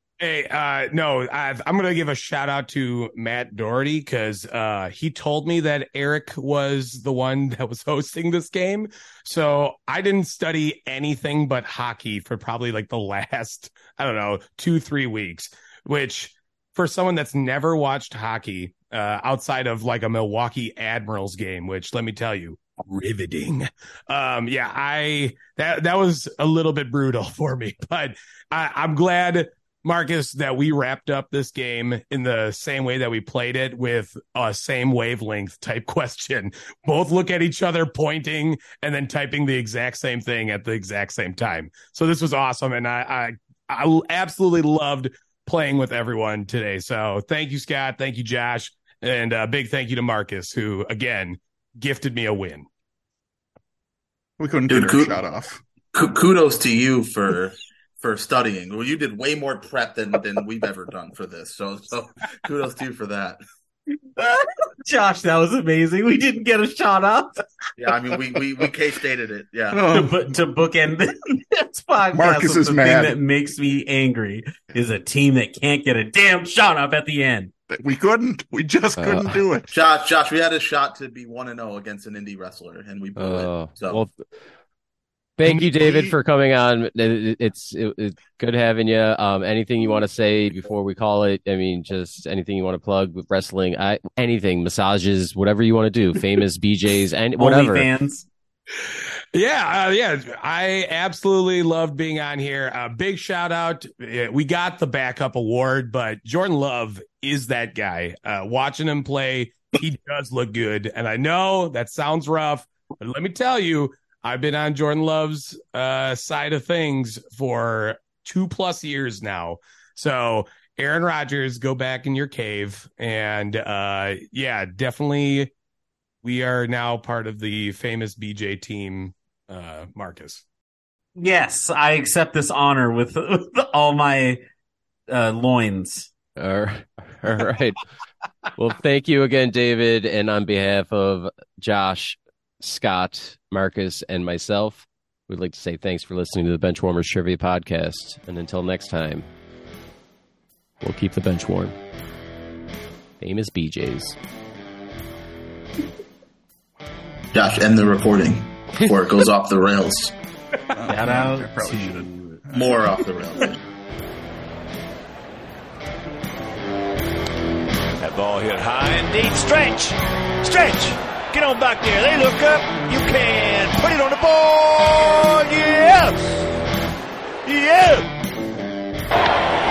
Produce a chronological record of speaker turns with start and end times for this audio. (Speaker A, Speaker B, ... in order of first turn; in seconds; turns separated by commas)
Speaker A: 0.2-52.7, Speaker B: 54.4-55.6, Speaker C: 54.7-55.2, Speaker C: 55.9-63.4, Speaker D: 64.2-67.4, Speaker C: 67.8-69.9, Speaker B: 69.7-70.2, Speaker D: 69.9-77.5, Speaker B: 72.1-73.2, Speaker B: 77.7-79.7, Speaker E: 79.0-79.4, Speaker C: 79.7-84.0, Speaker E: 83.2-84.2, Speaker E: 85.4-97.9, Speaker B: 85.5-86.2, Speaker D: 97.4-98.3, Speaker A: 98.8-125.5, Speaker A: 126.2-130.4, Speaker D: 131.2-134.4, Speaker D: 135.1-136.1, Speaker E: 136.4-137.8, Speaker E: 138.6-149.3, Speaker E: 150.8-151.8, Speaker E: 153.2-154.2, Speaker C: 157.3-160.1, Speaker B: 160.7-162.8, Speaker D: 160.9-162.4, Speaker C: 162.5-163.6, Speaker F: 168.0-176.3, Speaker F: 177.4-178.1